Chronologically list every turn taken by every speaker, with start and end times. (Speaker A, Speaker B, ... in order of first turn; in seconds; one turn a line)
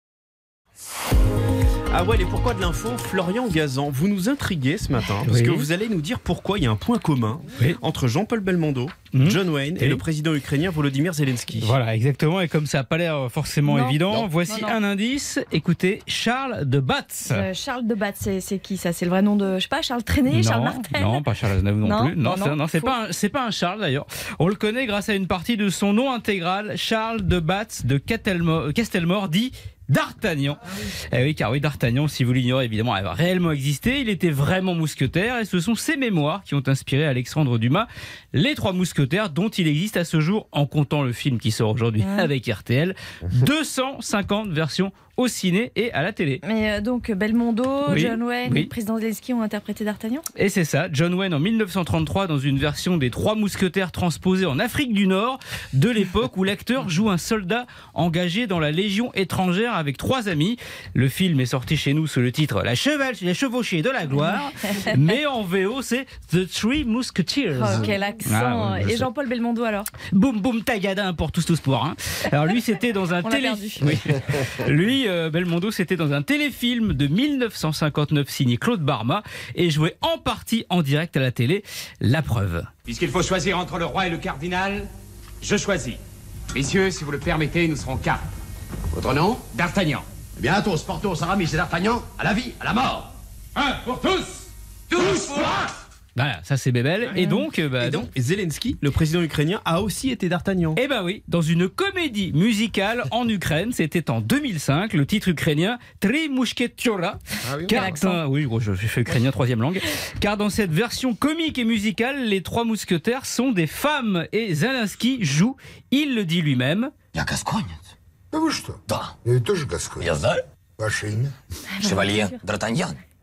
Speaker A: 1.9-11.8
Speaker B: 5.3-5.7
Speaker B: 9.1-10.0
Speaker B: 11.6-17.5
Speaker C: 13.7-14.8
Speaker C: 17.3-21.2
Speaker B: 20.3-46.4
Speaker C: 21.8-22.9
Speaker C: 42.0-42.3
Speaker C: 46.4-50.2
Speaker B: 47.9-48.7
Speaker B: 50.4-69.1
Speaker C: 67.5-69.9
Speaker B: 70.1-82.7
Speaker C: 73.2-74.0
Speaker D: 82.9-84.9
Speaker D: 85.4-86.0
Speaker D: 86.5-88.2
Speaker E: 89.0-89.4
Speaker D: 89.5-90.0
Speaker E: 90.4-93.1
Speaker D: 93.6-94.3
Speaker E: 95.0-95.3
Speaker B: 96.2-98.1
Speaker C: 97.2-97.4
Speaker A: 97.8-100.8
Speaker B: 100.8-116.9
Speaker C: 107.7-108.2
Speaker E: 117.2-117.8
Speaker F: 118.3-120.1
Speaker E: 118.9-119.2
Speaker E: 120.0-120.4
Speaker F: 120.8-121.3
Speaker C: 121.8-122.4
Speaker E: 121.8-123.0